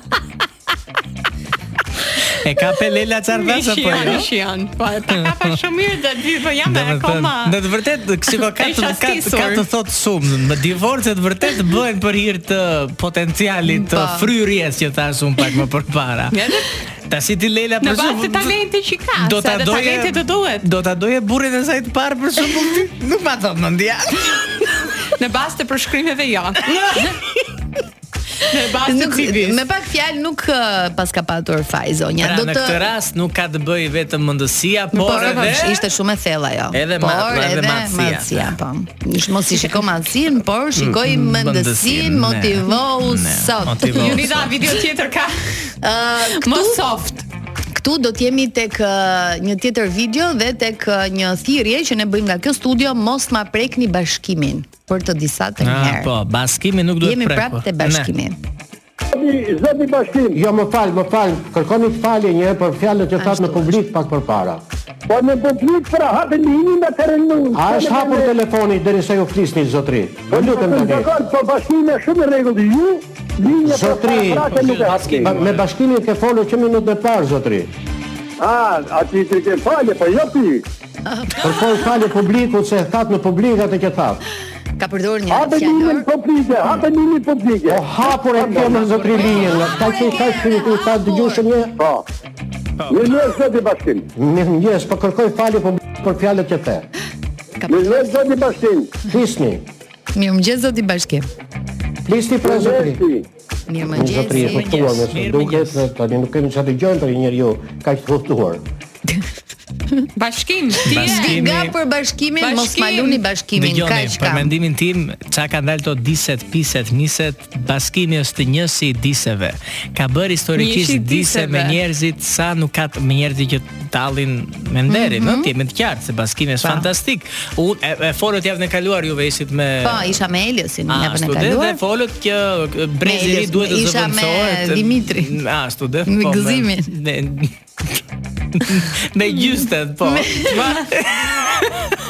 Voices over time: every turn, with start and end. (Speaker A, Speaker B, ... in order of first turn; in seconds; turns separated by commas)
Speaker A: 2.4-4.3, Speaker B: 3.3-7.6, Speaker A: 5.1-5.6, Speaker A: 6.7-16.5, Speaker B: 8.3-9.7, Speaker C: 13.7-14.3, Speaker B: 16.3-16.7, Speaker A: 17.1-18.6, Speaker B: 17.8-20.7, Speaker A: 19.2-24.6, Speaker B: 25.2-27.1, Speaker A: 26.7-27.1, Speaker B: 28.5-29.6, Speaker C: 28.9-32.9, Speaker A: 32.2-35.8, Speaker B: 34.9-35.7, Speaker C: 35.0-44.2, Speaker A: 36.7-38.6, Speaker A: 40.8-44.6, Speaker B: 43.9-45.7, Speaker C: 45.8-46.8, Speaker B: 46.4-47.2, Speaker C: 47.8-56.1, Speaker A: 55.6-58.1, Speaker C: 57.0-58.4, Speaker D: 59.1-60.4, Speaker E: 60.3-64.6, Speaker C: 63.2-63.8, Speaker D: 65.1-68.3, Speaker E: 67.5-71.1, Speaker D: 70.3-75.5, Speaker E: 73.6-77.7, Speaker A: 74.5-75.7, Speaker D: 78.4-80.6, Speaker C: 81.1-81.9, Speaker E: 81.4-84.2, Speaker C: 84.8-86.1, Speaker D: 85.3-89.4, Speaker E: 87.7-91.8, Speaker C: 89.1-91.5, Speaker D: 91.8-92.0, Speaker A: 92.8-93.1, Speaker D: 92.9-94.1, Speaker E: 94.2-96.8, Speaker C: 97.6-98.1, Speaker D: 97.7-98.9, Speaker E: 99.0-99.6, Speaker C: 100.2-101.3, Speaker E: 102.1-103.0, Speaker D: 102.4-103.2, Speaker C: 103.7-104.7, Speaker E: 103.9-108.6, Speaker A: 104.3-105.9, Speaker B: 110.2-111.5, Speaker A: 110.9-111.7, Speaker C: 110.9-114.5, Speaker B: 112.4-113.2, Speaker A: 113.6-130.2, Speaker B: 120.6-121.8, Speaker C: 124.9-125.5, Speaker C: 126.6-126.9, Speaker C: 129.8-131.8, Speaker A: 130.9-137.9, Speaker C: 133.0-135.4, Speaker C: 136.1-136.9, Speaker A: 138.5-141.8, Speaker C: 140.0-140.9, Speaker B: 140.5-140.8